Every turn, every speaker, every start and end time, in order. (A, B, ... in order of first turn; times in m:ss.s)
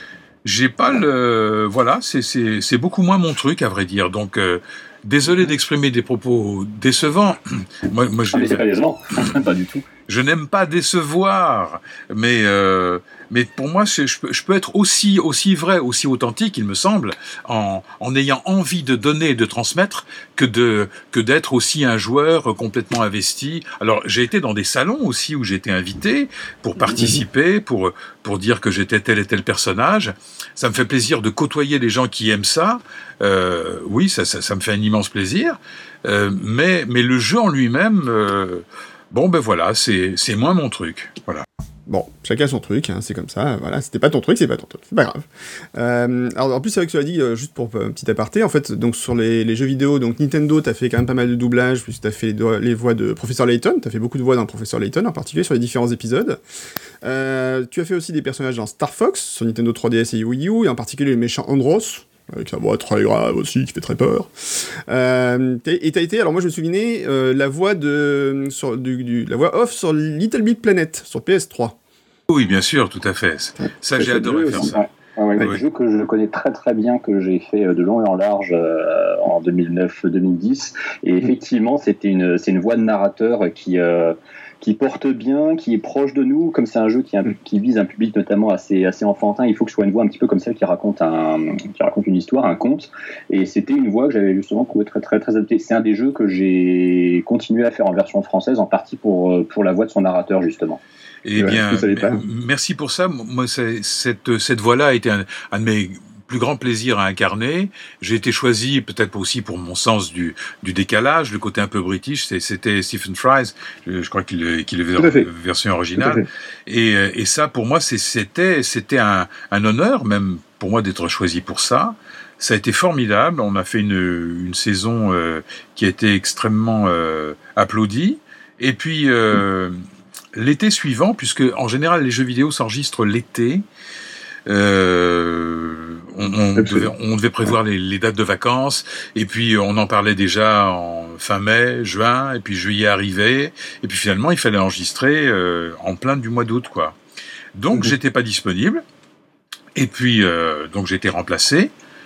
0:00.4-0:08.6 A
0:08.3-0:09.8 B
0:10.1-0:41.4 A
0:27.0-0:27.2 C
0:41.9-0:56.4 C
0:57.0-1:11.8 C
1:12.3-1:14.8 A
1:14.0-1:14.8 C
1:14.6-1:40.8 B
1:41.2-2:09.8 A
1:41.4-1:42.2 C
1:55.0-1:55.3 C
1:56.0-1:56.2 C
2:10.3-2:13.6 A
2:14.5-2:27.0 A
2:16.6-2:16.9 C
2:27.5-2:28.8 A
2:29.8-2:31.7 A